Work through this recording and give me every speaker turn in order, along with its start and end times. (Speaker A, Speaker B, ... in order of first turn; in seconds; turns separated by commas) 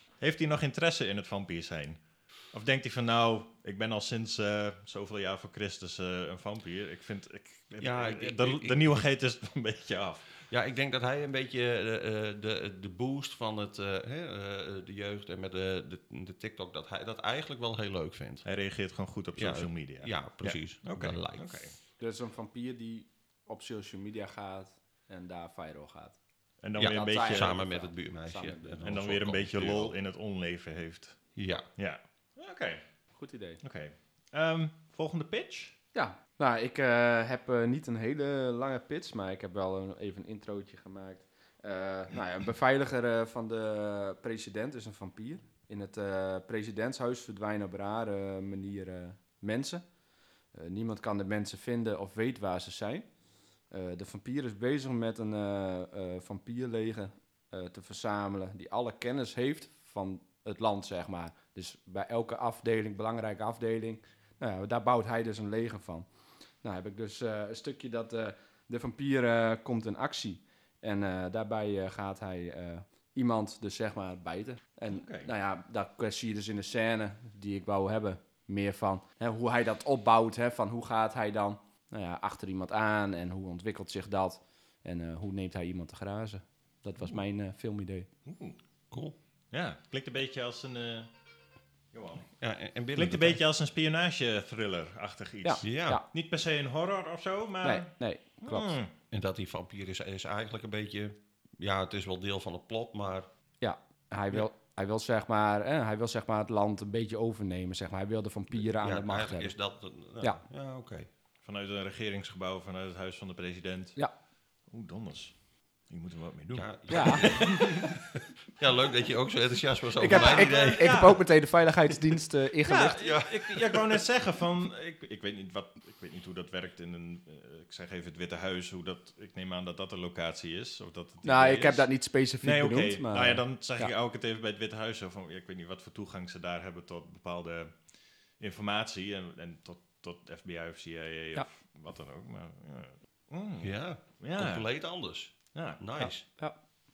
Speaker A: 0.2-10.2, Speaker B: 7.8-9.0, Speaker B: 10.5-18.4, Speaker A: 18.4-21.7, Speaker B: 19.4-21.6, Speaker C: 22.0-26.2, Speaker A: 26.6-27.5, Speaker C: 26.8-28.9, Speaker B: 26.8-29.9, Speaker A: 28.8-31.2, Speaker B: 31.4-31.7, Speaker A: 31.8-32.8, Speaker C: 33.1-33.6, Speaker A: 33.6-35.7, Speaker C: 35.9-49.8, Speaker C: 50.5-53.1, Speaker C: 53.7-66.0, Speaker C: 66.6-88.1, Speaker A: 74.9-75.3, Speaker A: 88.2-88.6, Speaker B: 88.9-89.2, Speaker A: 89.5-91.1, Speaker A: 91.9-92.3, Speaker B: 92.3-93.4, Speaker A: 92.9-97.9, Speaker C: 95.4-96.0, Speaker B: 95.6-96.0, Speaker C: 97.6-98.8, Speaker A: 98.4-98.9, Speaker B: 99.1-103.3, Speaker C: 103.6-109.5, Speaker B: 108.6-111.1, Speaker A: 111.4-114.0, Speaker A: 114.7-115.4, Speaker A: 115.9-118.0, Speaker B: 116.5-121.1, Speaker C: 116.9-117.8, Speaker C: 120.0-123.0, Speaker A: 120.1-121.2, Speaker A: 122.7-131.9, Speaker B: 122.9-124.0, Speaker C: 131.2-133.9, Speaker A: 132.4-137.7, Speaker A: 138.4-144.7, Speaker B: 143.6-146.2, Speaker A: 145.5-146.0, Speaker C: 146.0-146.6